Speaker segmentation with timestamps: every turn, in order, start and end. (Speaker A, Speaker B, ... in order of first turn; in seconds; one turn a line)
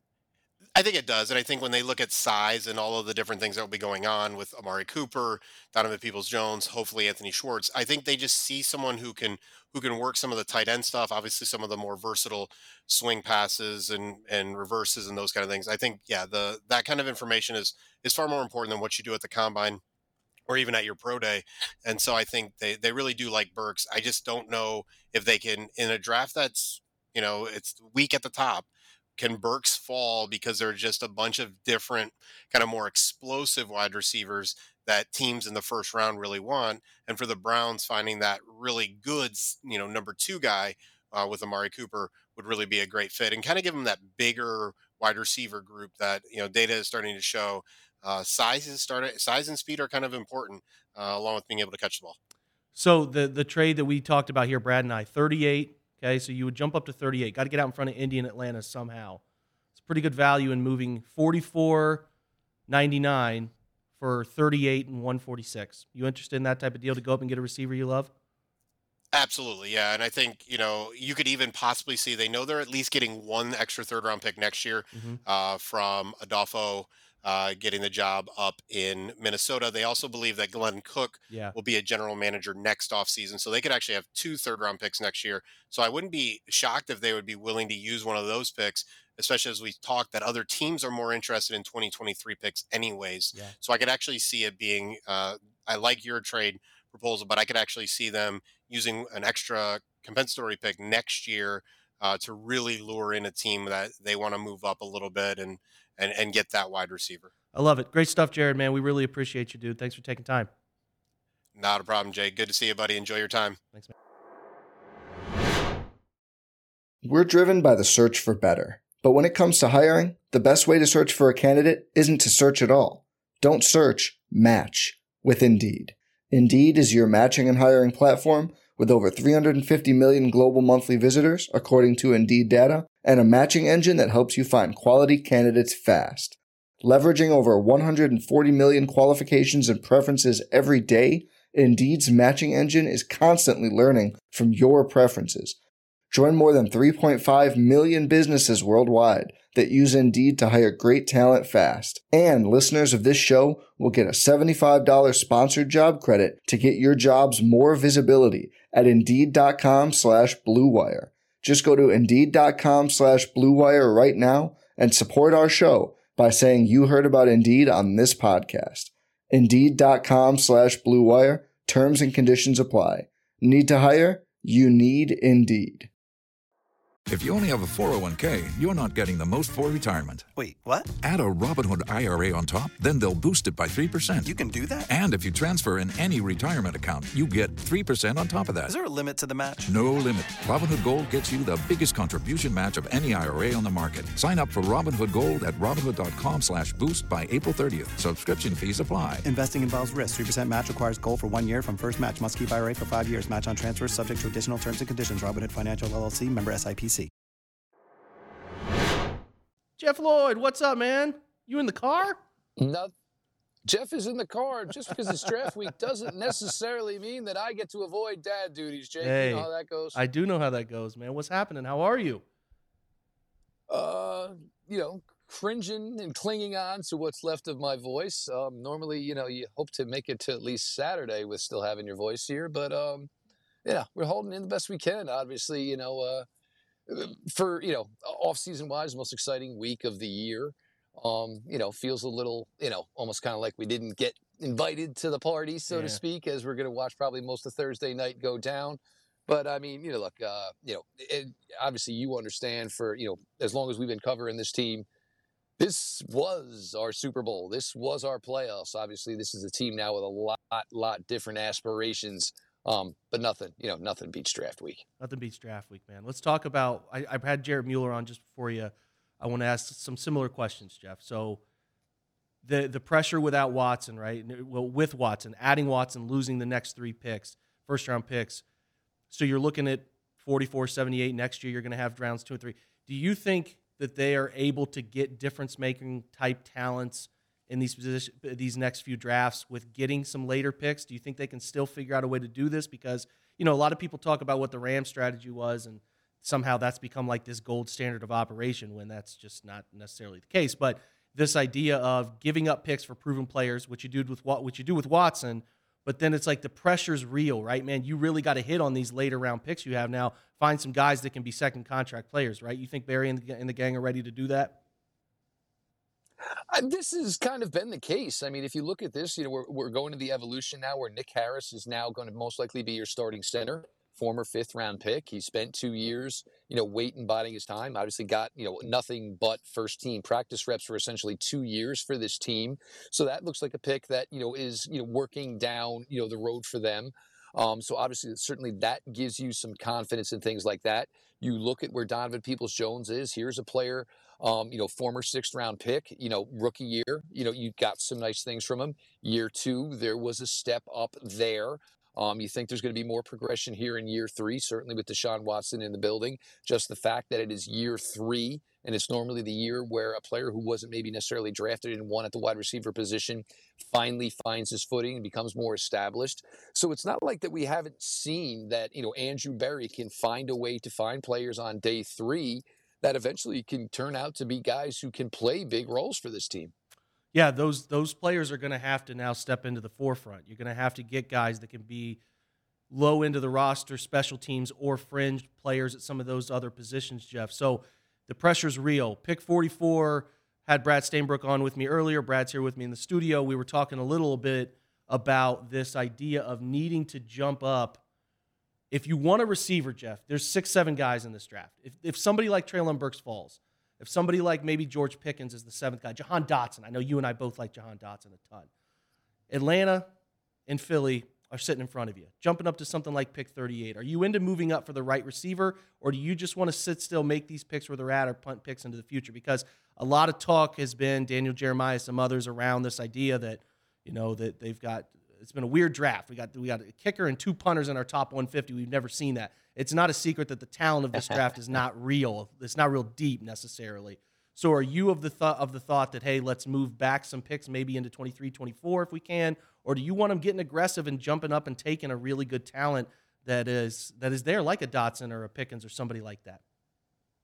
Speaker A: 0.8-19.8
Speaker A: 20.5-52.2
Speaker B: 52.8-59.2
Speaker B: 59.8-62.1
Speaker B: 62.7-68.1
Speaker A: 69.1-107.3
Speaker B: 74.9-75.2
Speaker B: 81.3-81.6
Speaker B: 107.5-110.5
Speaker A: 111.6-113.6
Speaker C: 117.0-145.6
Speaker C: 146.1-175.9
Speaker D: 177.1-180.3
Speaker E: 180.3-180.9
Speaker D: 181.0-184.3
Speaker E: 184.2-184.9
Speaker D: 184.9-188.7
Speaker E: 188.7-189.7
Speaker D: 189.7-199.2
Speaker E: 199.2-207.1
Speaker B: 209.8-212.2
Speaker F: 212.6-212.9
Speaker F: 213.7-220.0
Speaker B: 219.0-222.2
Speaker F: 223.7-233.1
Speaker F: 233.7-236.3
Speaker F: 236.9-254.9
Speaker B: 245.7-246.0
Speaker F: 255.6-264.8
Speaker B: 265.0-271.4
Speaker B: 272.4-278.4
Speaker B: 279.1-314.6
Speaker F: 316.5-376.5
Speaker B: 377.1-382.0
Speaker B: 382.7-397.8
Speaker B: 398.7-408.5
Speaker B: 409.3-409.9
Speaker B: 410.5-446.4